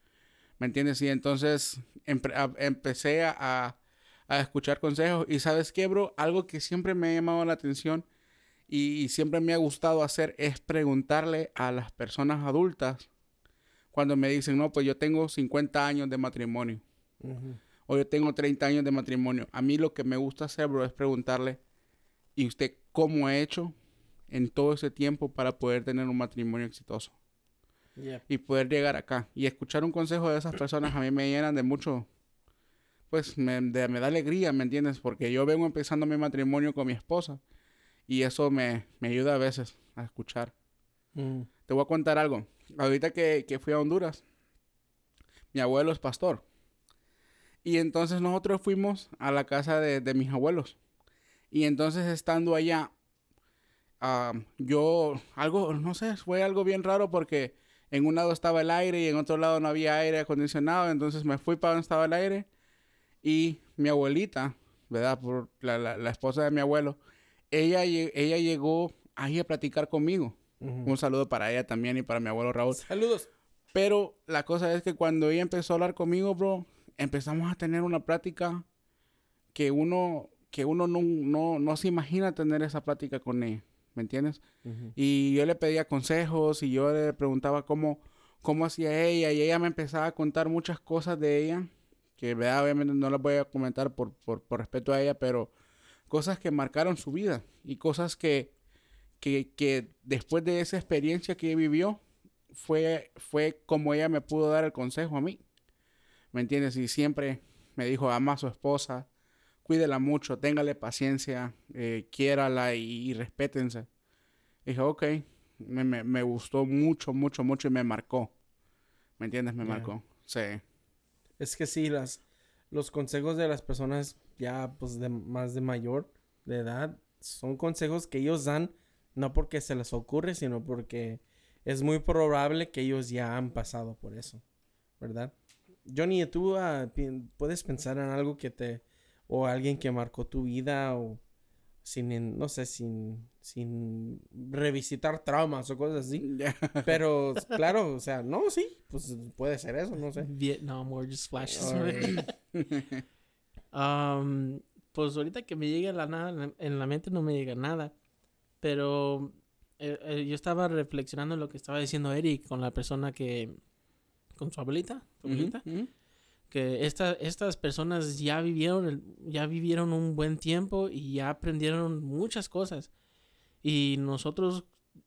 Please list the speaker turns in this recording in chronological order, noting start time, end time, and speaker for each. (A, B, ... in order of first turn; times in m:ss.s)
0:00.6-0:08.0 A
0:08.7-0:13.1 A
0:13.9-0:16.8 A
0:17.2-0:17.6 B
0:17.9-0:21.6 A
0:22.4-0:23.7 A
0:24.3-0:27.1 A
0:28.0-0:28.2 B
0:28.3-0:32.0 A
0:33.1-0:37.4 A
0:38.1-0:40.5 A
0:41.1-0:41.5 B
0:41.7-0:44.2 A
0:45.5-0:46.4 A
0:47.6-0:50.8 A
0:51.5-0:52.9 A
0:54.0-1:02.4 A
1:03.2-1:07.0 A
1:07.5-1:12.8 A
1:10.6-1:10.9 B
1:12.7-1:13.3 B
1:13.7-1:18.6 A
1:19.5-1:24.4 A
1:24.6-1:24.9 B
1:24.9-1:35.5 A
1:36.1-1:38.5 A
1:39.2-1:42.0 A
1:42.5-1:45.4 A
1:46.3-1:49.1 A
1:49.6-1:53.9 A
1:54.6-1:58.3 A
1:59.2-2:00.6 A
1:59.6-1:59.9 B
2:01.4-2:14.4 B
2:15.0-2:15.3 B
2:15.8-2:21.2 B
2:21.8-2:26.2 B
2:26.2-2:27.0 A
2:26.8-2:30.3 B
2:30.2-2:32.3 C
2:31.5-2:32.2 B
2:32.6-2:33.0 A
2:33.7-2:37.9 C
2:38.6-2:43.6 C
2:44.4-2:45.6 C
2:45.2-2:45.9 A
2:46.5-2:52.9 C
2:53.6-2:54.7 C